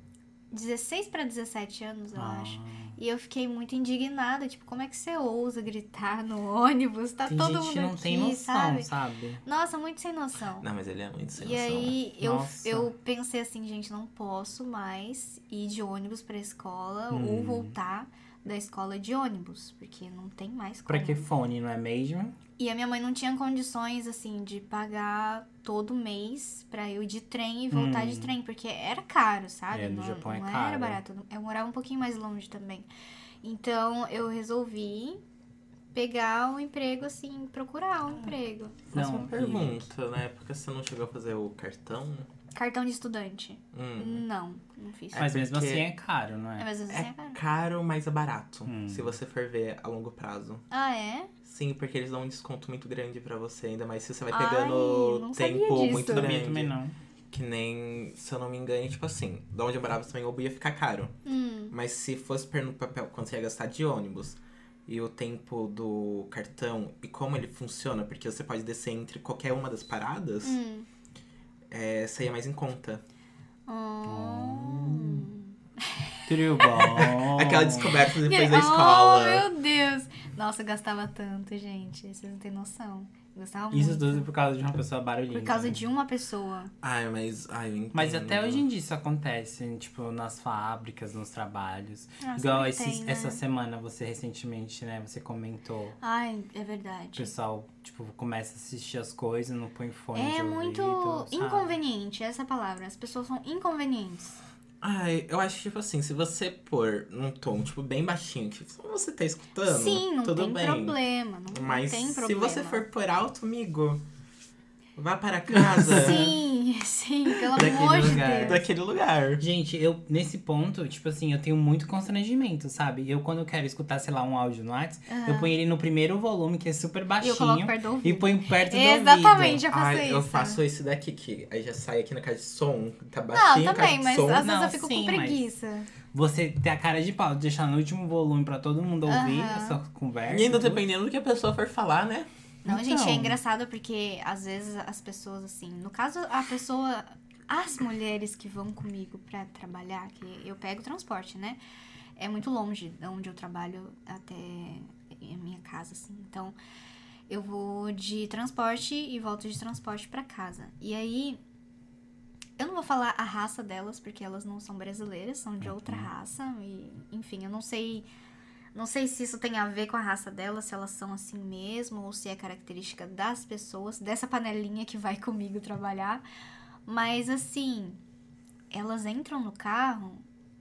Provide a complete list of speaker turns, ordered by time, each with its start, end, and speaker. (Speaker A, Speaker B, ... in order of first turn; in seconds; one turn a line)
Speaker A: 0.5-8.9
Speaker B: 2.1-3.0
Speaker B: 7.3-9.4
Speaker A: 9.4-10.7
Speaker C: 10.6-12.0
Speaker A: 11.4-21.3
Speaker B: 12.2-12.9
Speaker B: 17.1-17.8
Speaker B: 20.9-22.4
Speaker A: 22.6-32.9
Speaker B: 27.7-28.3
Speaker B: 29.7-31.0
Speaker A: 33.4-35.2
Speaker A: 35.9-38.9
Speaker B: 38.9-39.9
Speaker C: 38.9-42.3
Speaker A: 42.5-45.3
Speaker C: 43.7-44.2
Speaker C: 45.1-45.9
Speaker B: 45.2-46.7
Speaker A: 46.6-47.4
Speaker C: 46.9-50.6
Speaker B: 48.7-49.2
Speaker A: 50.7-51.3
Speaker C: 51.4-56.7
Speaker A: 54.3-56.3
Speaker B: 55.9-56.9
Speaker C: 57.3-61.1
Speaker A: 61.3-61.7
Speaker C: 61.7-70.6
Speaker A: 70.4-70.9
Speaker C: 71.7-73.0
Speaker A: 73.7-76.8
Speaker B: 74.1-75.3
Speaker B: 76.3-78.0
Speaker C: 76.8-79.5
Speaker A: 78.2-84.2
Speaker B: 83.7-85.8
Speaker A: 85.3-86.7
Speaker C: 86.8-88.7
Speaker B: 87.9-96.0
Speaker A: 92.2-93.4
Speaker A: 96.0-97.3
Speaker B: 97.2-101.8
Speaker A: 100.2-104.4
Speaker C: 104.8-111.0
Speaker A: 109.6-112.8
Speaker C: 111.5-114.0
Speaker C: 115.0-116.3
Speaker B: 115.5-116.3
Speaker A: 115.9-118.6
Speaker B: 117.5-118.7
Speaker C: 117.5-119.4
Speaker B: 119.4-129.6
Speaker A: 125.1-125.5
Speaker A: 127.2-130.6
Speaker C: 129.7-134.5
Speaker A: 133.3-135.9
Speaker B: 134.4-135.4
Speaker B: 136.1-140.8
Speaker A: 139.1-139.8
Speaker C: 140.3-142.3
Speaker A: 142.7-151.6
Speaker B: 142.7-143.4
Speaker A: 152.2-156.6
Speaker A: 157.3-161.4
Speaker A: 162.6-168.1
Speaker B: 165.6-166.1
Speaker A: 168.7-176.2
Speaker A: 176.9-178.0
Speaker A: 178.7-180.2